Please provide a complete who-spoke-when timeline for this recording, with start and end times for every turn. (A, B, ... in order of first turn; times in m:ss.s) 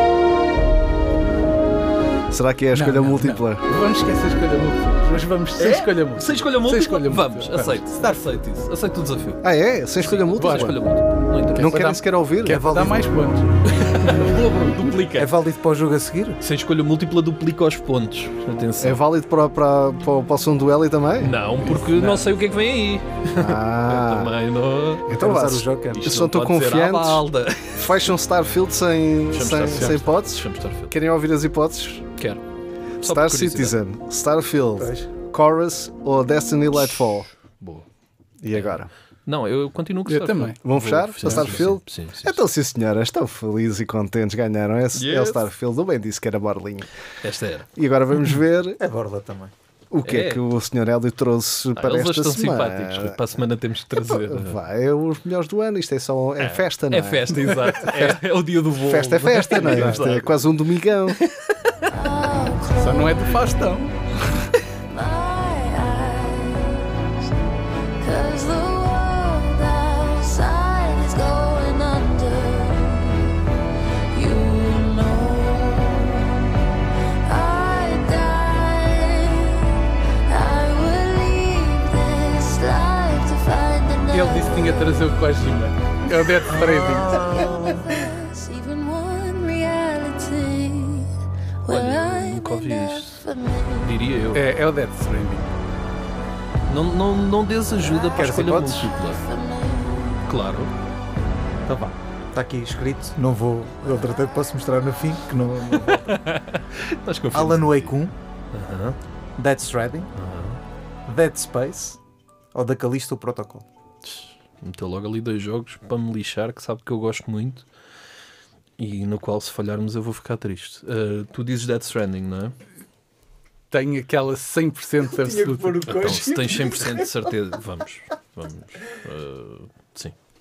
0:02.3-0:03.7 A
0:02.8-0:08.3 B
0:05.6-0:09.4 C
0:09.4-0:10.8 A
0:10.0-0:11.9 C
0:10.4-0:10.8 B
0:11.6-0:12.9 A
0:11.6-0:13.5 B
0:12.5-0:13.0 D
0:13.7-0:15.3 C
0:15.2-0:16.4 D
0:16.4-0:19.0 C
0:18.8-0:22.2 A
0:21.2-0:25.4 C
0:23.4-0:24.4 A
0:25.1-0:32.1 A
0:25.1-0:26.1 D
0:25.9-0:28.1 C
0:29.3-0:30.9 C
0:32.2-0:32.4 C
0:33.0-0:37.3 A
0:33.0-0:33.8 C
0:34.8-0:35.1 D
0:37.6-0:37.9 C
0:38.4-0:38.9 A
0:38.5-0:42.4 C
0:40.1-0:40.6 B
0:40.6-0:46.9 A
0:41.2-0:41.7 B
0:45.0-0:45.5 C
0:47.2-0:47.7 C
0:47.8-0:48.8 A
0:48.8-0:49.5 D
0:49.9-0:53.2 A
0:50.0-0:50.4 C
0:51.8-0:54.6 C
0:54.0-0:57.8 A
0:56.4-1:00.5 C
0:58.8-1:01.2 A
0:59.6-1:00.0 B
1:01.1-1:01.8 C
1:01.9-1:03.4 E
1:02.7-1:04.0 B
1:04.9-1:07.4 E
1:08.0-1:13.4 E
1:14.1-1:16.5 E
1:17.3-1:25.5 E
1:24.1-1:27.5 B
1:26.1-1:34.1 E
1:31.7-1:33.2 C
1:33.8-1:34.4 C
1:34.3-1:35.5 B
1:36.7-1:39.2 C
1:37.8-1:38.4 E
1:38.2-1:38.9 D
1:39.0-1:40.2 E
1:40.3-1:40.7 C
1:41.7-1:46.2 D
1:45.7-1:48.0 C
1:47.3-1:48.1 D
1:48.5-1:49.0 C
1:49.4-1:50.1 D
1:50.2-1:50.6 C
1:51.1-1:52.0 D
1:52.5-1:53.6 D
1:54.1-1:57.7 C
1:58.8-2:02.6 C
2:03.7-2:06.0 B
2:05.1-2:07.3 D
2:05.9-2:10.2 C